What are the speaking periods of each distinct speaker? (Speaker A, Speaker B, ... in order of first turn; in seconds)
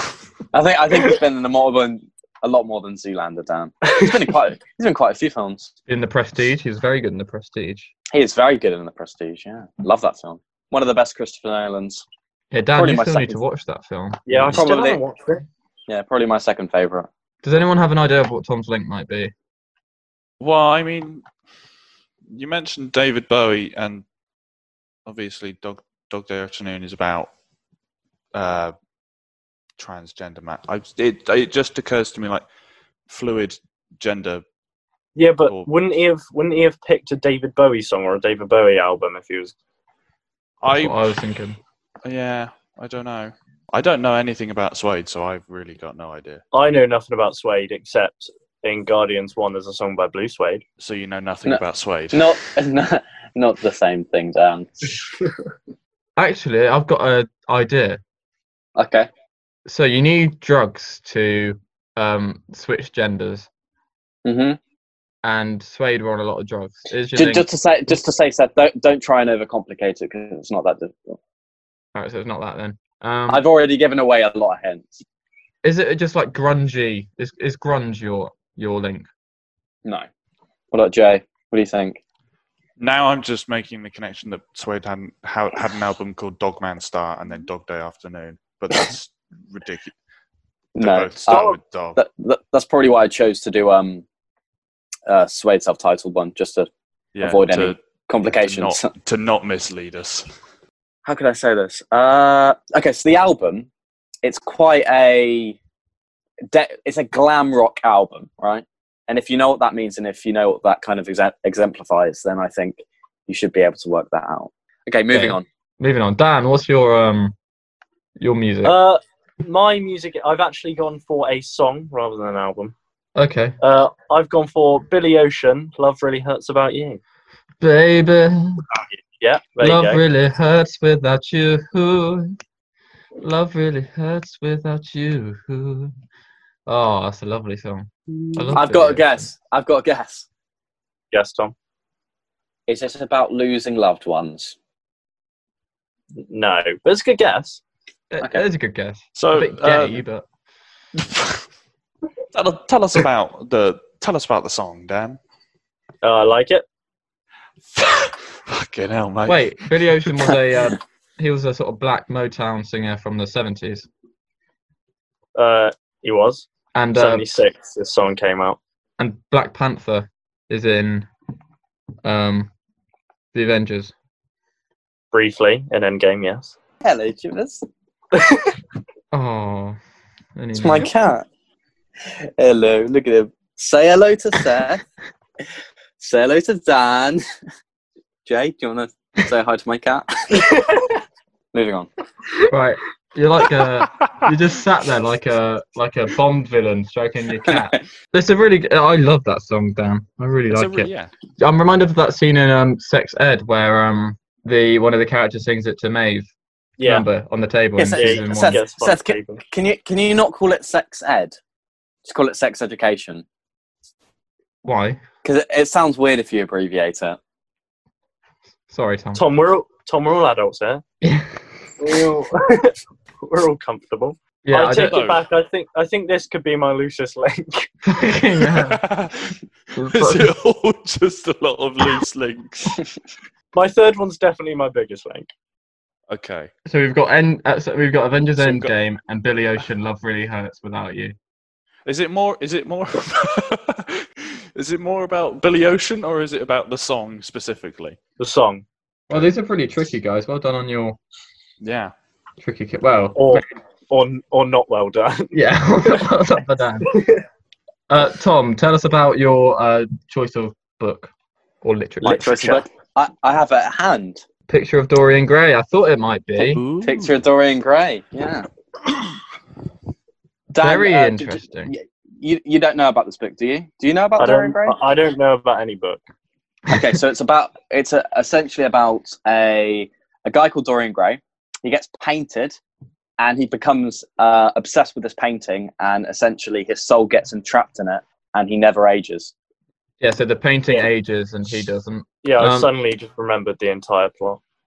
Speaker A: 0.5-5.7, 8.1-12.0, 12.8-13.4, 14.5-15.0, 15.9-17.1, 52.1-55.0, 58.8-59.1, 64.2-64.6, 67.2-71.2, 73.3-75.0, 80.7-82.0, 90.8-94.0, 95.1-96.7, 97.2-98.9, 101.0-103.7, 104.2-105.6, 106.5-115.4, 138.5-140.2, 142.7-144.6, 176.8-177.7, 180.6-181.3, 182.4-184.8, 186.0-187.2, 188.2-190.5, 191.5-191.9, 197.5-197.8, 207.8-211.3, 212.0-213.2, 215.2-217.2, 262.0-264.2, 266.8-268.5, 270.5-274.8, 276.7-282.6, 283.2-289.3
Speaker B: 5.9-7.9, 12.5-14.6, 17.4-19.3, 40.7-41.6, 56.2-58.0, 59.6-63.5, 65.2-67.4, 71.9-73.4, 75.6-79.1, 115.1-117.3, 118.2-118.8, 123.2-123.6, 127.6-128.6, 129.6-132.3, 133.2-135.9, 136.7-139.3, 148.1-150.2, 159.2-163.9, 166.7-167.2, 169.0-171.1, 172.0-172.5, 173.3-173.9, 179.1-179.8, 180.3-180.9, 192.5-206.3, 206.8-208.6, 214.6-215.0, 218.7-219.2, 221.0-221.3, 224.4-225.0, 227.8-228.8, 229.8-230.3, 236.7-241.1, 249.1-251.0, 252.4-253.4, 255.3-256.9, 257.9-261.1, 261.6-262.2, 264.5-266.6, 270.6-271.7, 290.0-292.7
Speaker C: 14.2-15.4, 35.1-39.5, 46.5-50.6, 118.6-122.7, 123.6-127.0, 129.2-130.0, 138.2-138.6, 141.1-141.5, 146.2-147.6, 156.0-156.6, 165.3-168.6, 175.1-176.5, 178.1-178.5, 190.4-191.0, 206.8-207.1, 207.9-209.4, 219.1-220.8, 221.8-227.7, 233.5-235.3, 248.2-248.6, 253.2-255.3, 256.9-257.2, 262.0-262.6, 274.2-276.0, 292.2-294.4
Speaker D: 20.4-21.2, 22.3-24.0, 25.1-27.3, 28.3-28.7, 29.8-32.4, 33.1-34.4, 40.6-41.0, 42.0-46.4, 50.8-52.3, 82.8-89.9, 90.8-92.0, 97.1-100.3, 149.1-150.0, 151.0-151.4, 152.3-155.2, 157.7-159.5, 200.5-201.1, 224.8-225.2, 228.5-232.8, 236.1-236.5, 238.4-238.7, 241.8-248.0, 251.6-251.9, 266.4-267.1